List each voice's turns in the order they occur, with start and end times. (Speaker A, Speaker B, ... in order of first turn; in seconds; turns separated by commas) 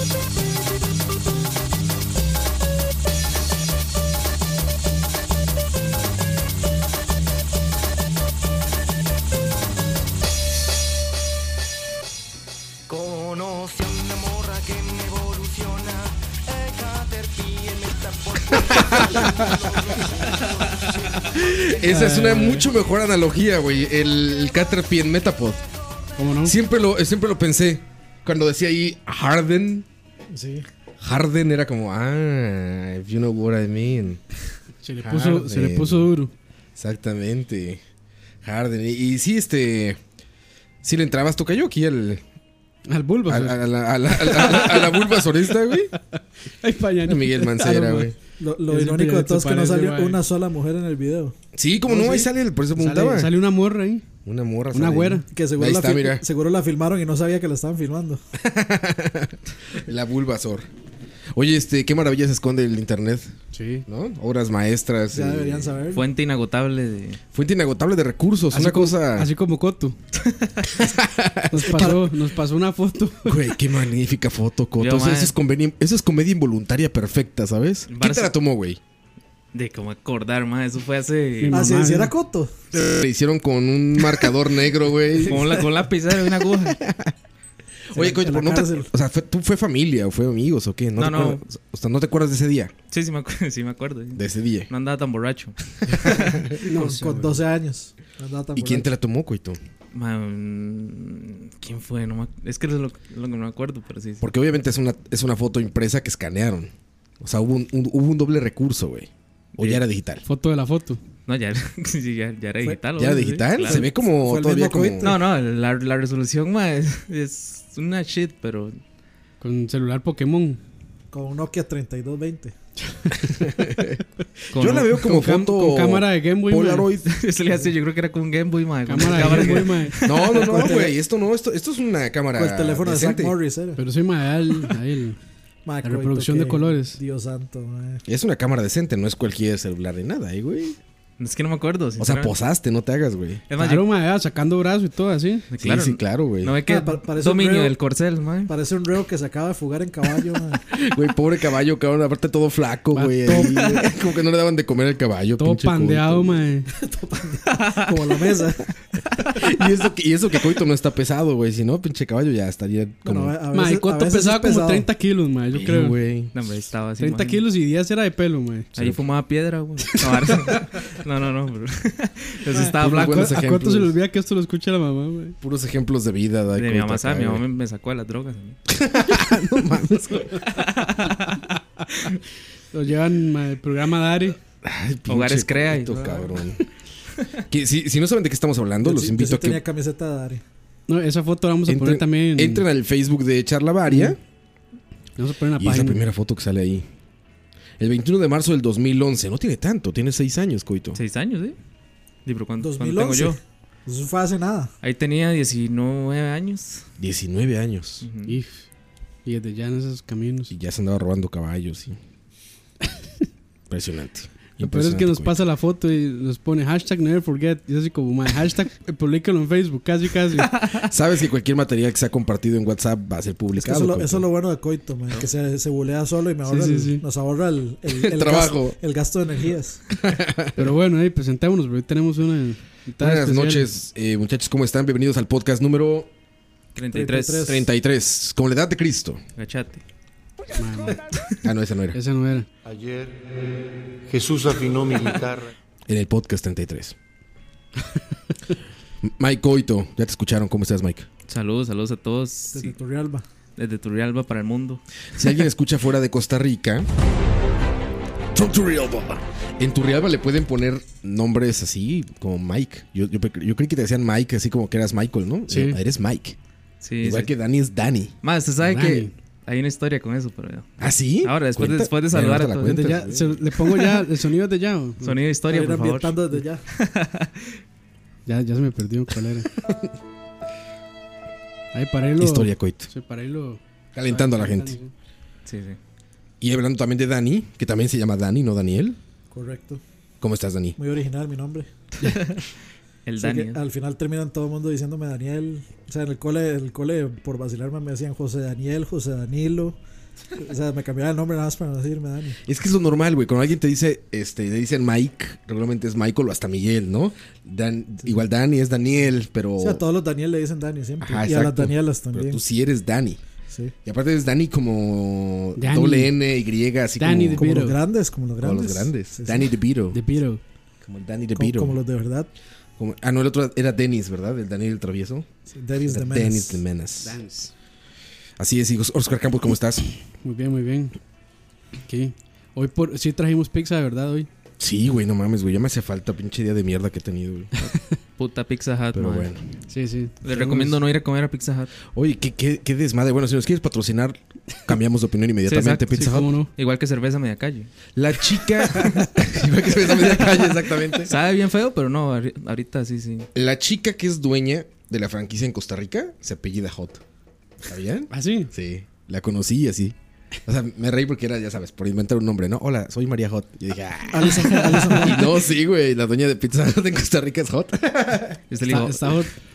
Speaker A: 12.9-21.8, Speaker B: 18.7-19.2, Speaker B: 21.3-25.6, Speaker C: 21.9-22.7, Speaker C: 26.2-26.6, Speaker B: 26.4-29.9, Speaker D: 30.3-30.7, Speaker B: 31.0-34.2, Speaker C: 34.8-36.3, Speaker B: 35.0-36.1, Speaker B: 36.8-37.8, Speaker B: 38.4-40.0, Speaker B: 40.8-42.2, Speaker C: 42.9-45.2, Speaker B: 43.3-45.9, Speaker C: 46.1-48.1, Speaker B: 47.0-48.1, Speaker D: 48.4-51.3, Speaker C: 48.6-50.2, Speaker B: 51.5-53.4, Speaker C: 51.9-54.0, Speaker B: 54.2-56.2, Speaker C: 54.7-55.2, Speaker D: 55.3-58.2, Speaker B: 58.4-60.7, Speaker B: 61.3-63.3, Speaker C: 63.5-63.9, Speaker B: 63.9-65.7, Speaker D: 65.1-66.0, Speaker E: 65.9-67.2, Speaker B: 67.3-69.3, Speaker C: 68.5-70.0, Speaker B: 70.8-72.0, Speaker C: 71.5-73.4, Speaker D: 71.6-72.1, Speaker B: 73.2-78.8, Speaker E: 74.8-75.3, Speaker E: 77.9-78.3, Speaker E: 79.5-81.7, Speaker C: 81.4-82.1, Speaker D: 81.5-82.5, Speaker B: 82.7-85.6, Speaker E: 85.3-86.8, Speaker B: 86.7-87.1, Speaker D: 87.9-88.9, Speaker B: 87.9-92.7, Speaker E: 91.0-91.4, Speaker E: 92.9-96.4, Speaker B: 94.1-94.7, Speaker C: 96.6-97.4, Speaker D: 96.7-98.9, Speaker B: 98.5-99.6, Speaker E: 99.9-104.3, Speaker B: 104.2-110.2, Speaker E: 109.5-109.8, Speaker C: 110.3-111.0, Speaker E: 111.3-113.9, Speaker B: 113.0-115.2, Speaker D: 113.7-115.2, Speaker E: 115.0-118.8, Speaker C: 119.4-120.6, Speaker D: 121.1-122.5, Speaker B: 123.3-124.0, Speaker E: 124.5-124.9, Speaker B: 124.5-127.1, Speaker C: 125.0-126.9, Speaker E: 127.1-130.5, Speaker C: 128.9-130.1, Speaker B: 130.0-133.3, Speaker D: 130.2-130.9, Speaker D: 132.3-133.8, Speaker C: 133.8-135.2, Speaker D: 135.7-138.0, Speaker C: 135.8-137.0, Speaker B: 138.1-140.8, Speaker E: 141.2-142.3, Speaker B: 142.0-143.4, Speaker E: 143.5-143.8, Speaker C: 143.6-145.5, Speaker E: 145.5-148.5, Speaker B: 145.6-146.6, Speaker D: 146.7-147.8, Speaker D: 148.5-150.6, Speaker B: 150.7-156.5, Speaker C: 152.9-153.8, Speaker E: 153.4-153.7, Speaker C: 155.4-156.7, Speaker D: 156.7-158.7, Speaker E: 157.6-158.2, Speaker B: 159.3-163.4, Speaker D: 163.0-164.9, Speaker C: 163.5-166.0, Speaker B: 165.5-166.3, Speaker E: 166.3-167.4, Speaker C: 167.0-168.8, Speaker E: 168.8-173.3, Speaker C: 172.7-175.4, Speaker B: 172.8-173.9, Speaker B: 175.4-177.4, Speaker E: 176.6-178.6, Speaker B: 178.7-180.4, Speaker E: 180.5-181.4, Speaker C: 182.7-184.4, Speaker B: 184.6-186.6, Speaker E: 185.1-186.4, Speaker B: 187.5-189.6, Speaker D: 188.8-190.4, Speaker C: 190.9-192.7, Speaker B: 191.7-194.2, Speaker C: 195.2-196.0, Speaker B: 195.6-196.9, Speaker B: 197.8-201.0, Speaker E: 200.9-201.6, Speaker E: 202.3-203.4, Speaker D: 202.6-204.7, Speaker E: 204.8-206.9, Speaker B: 207.0-208.1, Speaker E: 208.0-208.3, Speaker C: 208.3-208.6, Speaker C: 209.2-210.5, Speaker B: 210.5-212.0, Speaker B: 213.7-215.4, Speaker C: 214.6-220.6, Speaker E: 220.5-220.8, Speaker B: 220.9-224.3, Speaker D: 223.6-229.8, Speaker C: 226.5-227.0, Speaker B: 227.9-228.8, Speaker B: 229.9-230.6, Speaker C: 230.6-233.7, Speaker B: 233.0-236.1, Speaker E: 236.8-237.6, Speaker D: 236.9-237.6, Speaker B: 237.4-239.2, Speaker E: 239.4-239.8, Speaker C: 240.6-241.0, Speaker B: 241.4-242.0, Speaker C: 241.9-242.5, Speaker F: 242.6-245.5, Speaker B: 245.9-246.9, Speaker B: 249.0-251.1, Speaker E: 251.3-252.8, Speaker D: 252.5-253.2, Speaker E: 253.6-254.8, Speaker B: 255.2-256.9, Speaker B: 258.3-266.4, Speaker C: 265.5-265.8, Speaker E: 266.8-267.3, Speaker B: 267.0-268.2, Speaker E: 268.2-272.8, Speaker C: 268.6-269.1, Speaker B: 270.8-273.4, Speaker C: 272.6-275.2, Speaker E: 275.0-276.2, Speaker D: 275.5-276.6, Speaker E: 276.7-277.3, Speaker C: 278.3-279.5, Speaker B: 279.6-279.9, Speaker C: 281.7-284.9, Speaker B: 282.2-282.9, Speaker B: 283.9-284.7, Speaker E: 285.5-285.8, Speaker B: 286.4-289.0, Speaker D: 289.3-289.8, Speaker B: 290.2-290.8, Speaker D: 290.8-291.7, Speaker E: 292.0-292.4, Speaker E: 293.1-293.6, Speaker D: 293.2-299.8, Speaker D: 300.4-302.4, Speaker B: 302.5-309.8, Speaker D: 309.6-312.4, Speaker B: 311.0-313.2, Speaker B: 313.9-317.5, Speaker C: 315.6-316.1, Speaker C: 317.0-317.8, Speaker D: 317.4-319.5, Speaker B: 318.4-320.0, Speaker C: 319.9-320.4, Speaker B: 320.8-321.8, Speaker D: 321.4-322.3, Speaker B: 322.8-325.3, Speaker D: 325.6-326.6, Speaker B: 325.8-327.2, Speaker C: 327.0-327.5, Speaker B: 328.4-329.9, Speaker C: 330.2-331.0, Speaker C: 331.9-334.3, Speaker B: 334.6-337.5, Speaker E: 337.6-339.3, Speaker B: 338.9-339.4, Speaker C: 339.7-340.8, Speaker E: 340.2-341.7, Speaker B: 341.9-346.3, Speaker E: 345.5-345.9, Speaker C: 345.9-346.5, Speaker E: 346.6-347.7, Speaker B: 348.0-351.1, Speaker E: 351.1-353.3, Speaker B: 353.4-357.0, Speaker B: 357.7-368.4, Speaker C: 358.1-358.5, Speaker D: 364.1-365.5, Speaker E: 368.5-369.3, Speaker C: 368.6-369.3